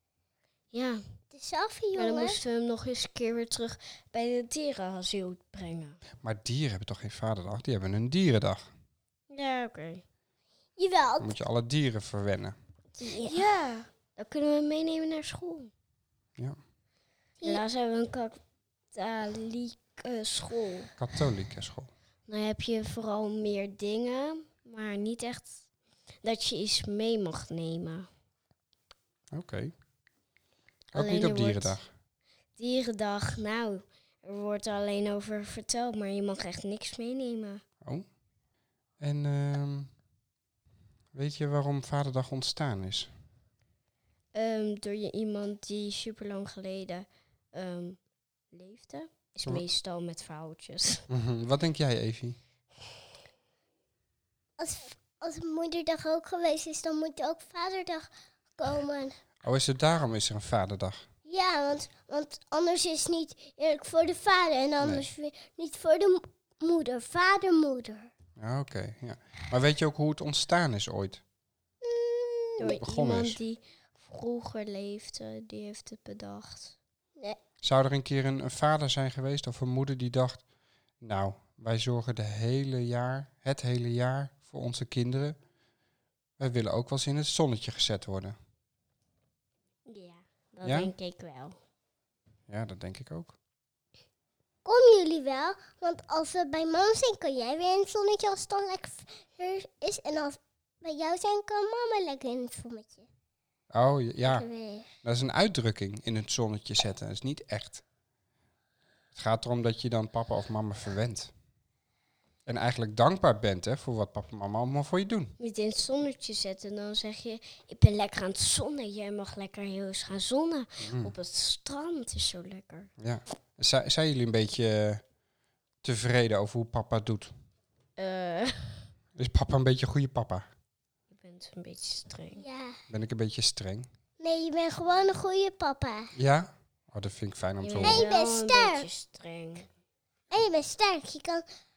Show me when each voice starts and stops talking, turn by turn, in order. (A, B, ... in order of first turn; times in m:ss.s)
0:00.7-0:01.0 A
0:01.3-0:02.4 B
0:01.9-0:06.0 A
0:06.2-0:08.7 C
0:09.3-0:10.0 A
0:10.8-0:11.4 B
0:11.2-0:12.6 C
0:13.0-0:13.4 B
0:13.0-0:15.7 A
0:17.4-0:18.4 A
0:18.9-0:20.9 A
0:21.0-0:21.9 C
0:22.3-0:25.6 A
0:26.2-0:28.1 A
0:29.3-0:29.7 C
0:30.9-0:31.8 C
0:30.9-0:31.8 A
0:32.6-0:37.6 A
0:39.0-0:39.9 C
0:41.1-0:43.1 C
0:44.3-0:48.0 A
0:48.5-0:51.0 A
0:51.1-0:52.4 C
0:54.6-0:59.1 B
0:59.4-1:01.0 C
1:01.2-1:08.1 B
1:04.8-1:05.1 C
1:08.4-1:11.2 C
1:11.8-1:12.7 B
1:12.6-1:16.7 A
1:12.6-1:13.4 C
1:17.6-1:20.4 C
1:21.0-1:25.4 C
1:26.4-1:28.4 C
1:29.9-1:31.6 A
1:30.6-1:30.9 C
1:32.5-1:33.3 C
1:34.6-1:43.1 B
1:43.7-1:44.4 C
1:44.2-1:44.9 B
1:45.0-1:47.8 C
1:49.1-1:51.3 C
1:52.4-1:55.3 C
1:55.4-2:02.9 A
2:00.8-2:01.1 C
2:03.0-2:05.0 C
2:05.8-2:07.3 C
2:08.0-2:08.9 A
2:09.2-2:10.5 C
2:11.1-2:12.4 A
2:12.4-2:12.8 B
2:12.9-2:13.9 C
2:14.2-2:16.1 B
2:16.1-2:18.1 C
2:17.6-2:19.7 A
2:17.8-2:18.9 B
2:20.3-2:21.4 B